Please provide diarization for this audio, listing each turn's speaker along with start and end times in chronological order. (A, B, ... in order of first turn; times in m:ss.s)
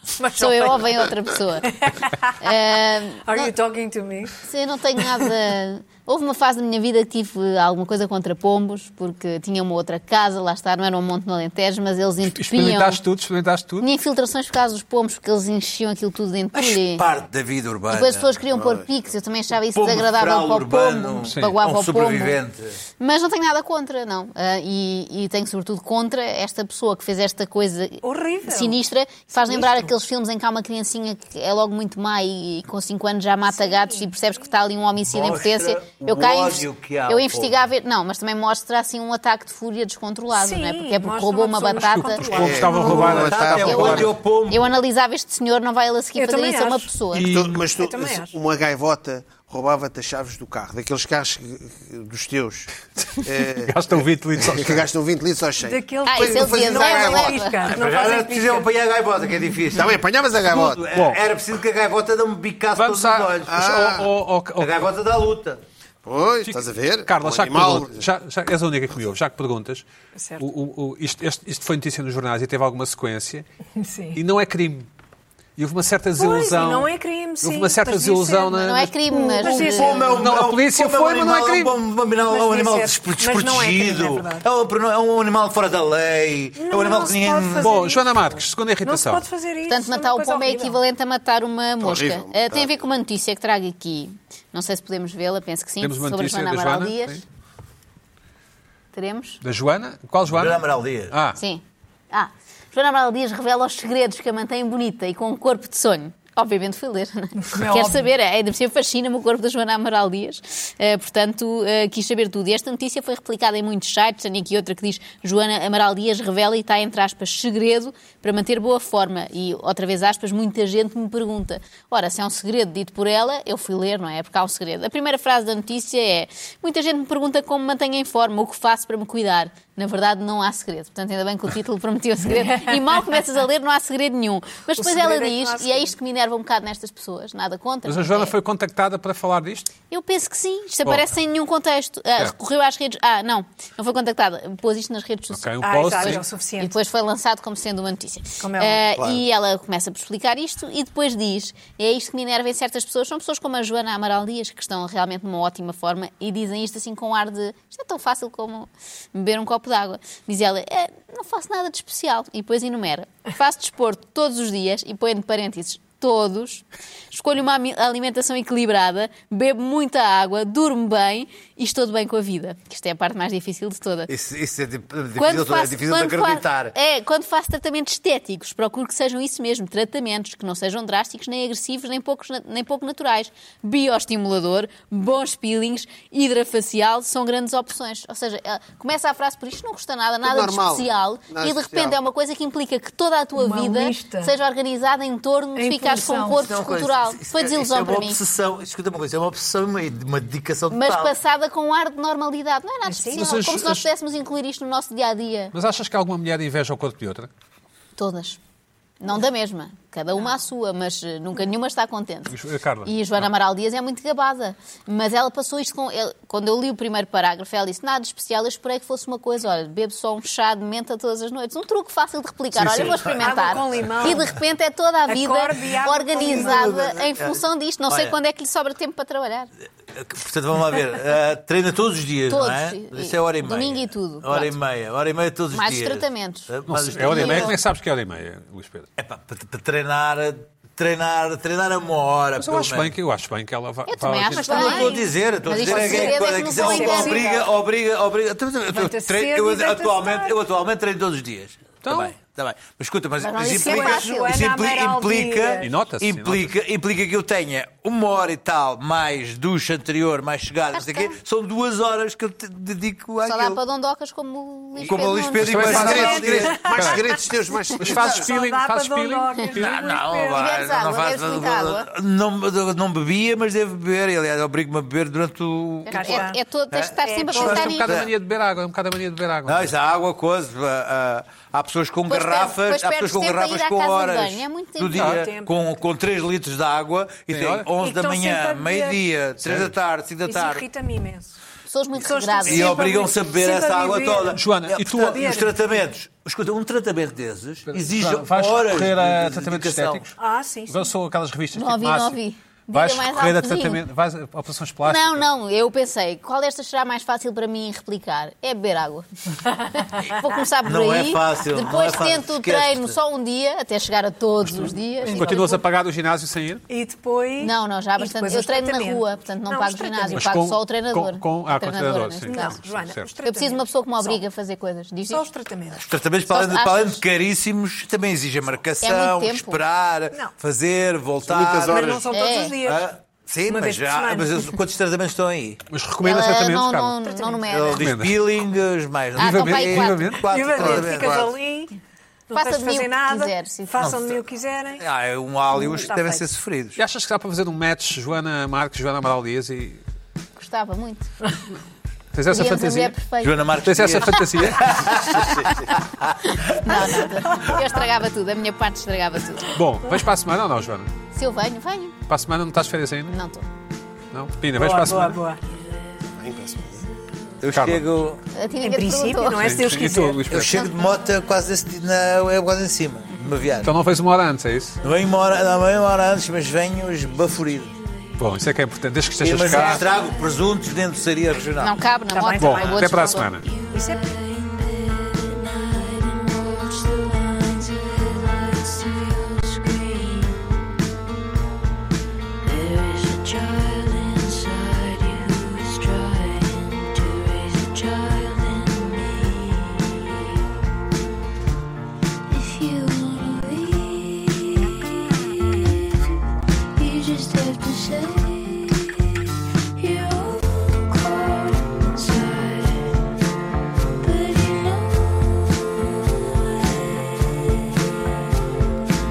0:00.2-0:01.1 A
0:00.3-0:01.8 B
0:01.6-0:02.5 A
0:02.4-0:03.5 B
0:03.2-0:04.4 A
0:04.4-0:13.0 B
0:12.4-0:13.9 C
0:13.8-0:17.0 B
0:16.5-0:18.3 D
0:17.9-0:22.4 B
0:18.5-0:18.9 E
0:19.7-0:22.8 D
0:23.0-0:42.6 B
0:28.0-0:29.9 A
0:33.5-0:34.5 A
0:35.0-0:37.7 D
0:40.3-0:43.3 A
0:41.8-0:44.1 C
0:42.4-0:44.1 E
0:43.0-0:44.7 D
0:43.6-0:47.3 B
0:46.2-0:48.4 A
0:47.1-0:47.6 C
0:47.2-0:57.4 E
0:53.6-0:54.9 C
0:55.6-0:58.7 A
0:56.1-0:57.7 B
0:57.7-1:03.6 D
0:59.7-1:00.9 E
1:00.9-1:01.2 C
1:02.8-1:04.8 C
1:03.5-1:04.1 E
1:04.6-1:05.6 D
1:06.0-1:08.1 E
1:06.4-1:09.9 C
1:10.2-1:10.5 A
1:10.4-1:13.5 C
1:13.8-1:14.2 A
1:14.2-1:14.9 C
1:15.6-1:16.9 C
1:16.2-1:20.3 A
1:17.4-1:18.9 C
1:18.6-1:20.0 B
1:19.5-1:27.8 D
1:20.1-1:21.8 C
1:22.3-1:24.5 A
1:26.6-1:30.8 A
1:27.6-1:29.2 C
1:29.7-1:37.2 B
1:31.8-1:32.8 E
1:35.8-1:37.2 C
1:38.9-1:39.4 B
1:39.4-1:41.4 C
1:40.3-1:41.2 D
1:41.4-2:18.3 B
1:47.4-1:48.1 A
2:12.3-2:13.0 A
2:14.8-2:16.0 A
2:17.9-2:19.7 C
2:19.9-2:54.1 B
2:25.3-2:26.2 C
2:25.6-2:26.7 A
2:28.4-2:29.0 A
2:29.0-2:29.2 E
2:54.1-2:56.8 D
2:55.2-3:18.2 B
3:10.2-3:12.0 E
3:13.4-3:14.3 A
3:15.6-3:16.5 A
3:16.3-3:21.2 D
3:20.7-3:25.5 B
3:22.8-3:23.5 A
3:23.2-3:23.9 C
3:25.5-3:27.3 C
3:28.0-3:28.4 B
3:29.0-3:49.5 B
3:32.3-3:32.9 C
3:42.6-3:44.3 D
3:43.2-3:44.4 A
3:45.1-3:46.8 A
3:46.3-3:48.2 D
3:49.9-3:57.6 D
3:52.3-3:54.6 B
3:55.5-3:57.6 B
3:56.7-3:58.9 C
3:59.0-4:02.9 D
4:02.4-4:04.6 C
4:03.9-4:07.3 B
4:04.3-4:07.5 A
4:04.5-4:23.6 D
4:08.7-4:10.4 A
4:11.8-4:12.1 C
4:13.2-4:14.4 B
4:13.4-4:15.8 A
4:15.6-4:16.5 C
4:20.7-4:21.2 B
4:23.2-4:26.0 B
4:24.8-4:26.6 D
4:25.4-4:27.0 C
4:25.6-4:28.3 E
4:25.8-4:27.2 A
4:27.8-4:29.8 C
4:27.8-4:30.5 A
4:29.6-4:38.1 D
4:30.3-4:31.9 B
4:35.9-4:37.9 B
4:35.9-4:36.4 A
4:37.0-4:37.8 A
4:37.3-4:39.7 C
4:39.5-4:50.7 D
4:42.1-4:45.1 B
4:45.0-4:45.2 C
4:45.0-4:45.5 A
4:47.3-4:47.7 C
4:47.8-4:49.0 A
4:49.4-4:49.7 C
4:50.3-4:51.4 A
4:51.7-4:52.9 B
4:52.0-4:55.6 A
4:52.5-5:00.0 D
4:54.3-4:55.2 C
4:57.7-5:00.2 C
5:00.2-5:00.9 A
5:00.7-5:02.2 C
5:01.5-5:03.8 B
5:02.7-5:05.2 C
5:04.9-5:09.1 B
5:09.7-5:15.6 B
5:10.6-5:13.0 D
5:14.4-5:16.6 C
5:15.0-5:15.6 A
5:16.7-5:20.3 A
5:17.4-5:22.6 B
5:20.2-5:23.1 C
5:22.3-5:24.2 A
5:23.2-5:25.2 B
5:25.1-5:25.9 A
5:25.8-5:32.0 D
5:26.3-5:27.0 B
5:28.8-5:29.6 B
5:31.2-5:32.1 E
5:31.7-5:32.9 A
5:32.1-5:32.6 B
5:32.6-5:35.6 D
5:33.5-5:34.4 A
5:35.7-5:37.0 C
5:36.0-5:37.9 B
5:37.1-5:37.5 A
5:37.5-5:41.3 D
5:37.8-5:38.2 C
5:39.2-5:40.2 C
5:39.2-5:40.2 B
5:40.3-5:41.8 A
5:40.6-5:41.2 E
5:42.3-5:44.8 A
5:42.3-5:43.9 B
5:43.8-5:44.2 D
5:44.8-5:46.8 D
5:45.5-5:46.3 A
5:46.8-5:49.8 C
5:50.4-5:51.1 B
5:52.1-5:53.0 C
5:52.3-5:53.5 B
5:53.2-5:57.0 D
5:53.6-5:54.9 C
5:54.9-5:55.4 B
5:55.2-5:55.7 E
5:56.2-5:59.5 B
5:57.3-5:57.8 A
5:59.6-6:00.9 C
6:01.1-6:02.0 B
6:02.1-6:03.1 C
6:03.1-6:03.5 B
6:04.1-6:05.2 C
6:04.6-6:05.4 A
6:05.4-6:07.5 F
6:06.2-6:06.8 E
6:07.4-6:08.2 D
6:07.5-6:07.9 C
6:08.3-6:09.6 B
6:08.6-6:10.4 A
6:09.3-6:10.7 C
6:10.3-6:13.7 D
6:10.6-6:12.1 F
6:13.2-6:13.9 F
6:13.6-6:14.8 C
6:14.8-6:21.5 F
6:14.8-6:17.7 D
6:18.2-6:19.8 C
6:19.2-6:21.7 D
6:21.6-6:23.3 B
6:22.1-6:24.1 A
6:22.4-6:23.4 C
6:23.3-6:30.6 F
6:32.4-6:40.4 F
6:42.3-6:46.2 F
6:46.8-6:49.2 F
6:49.8-6:53.0 F
6:54.0-6:58.2 F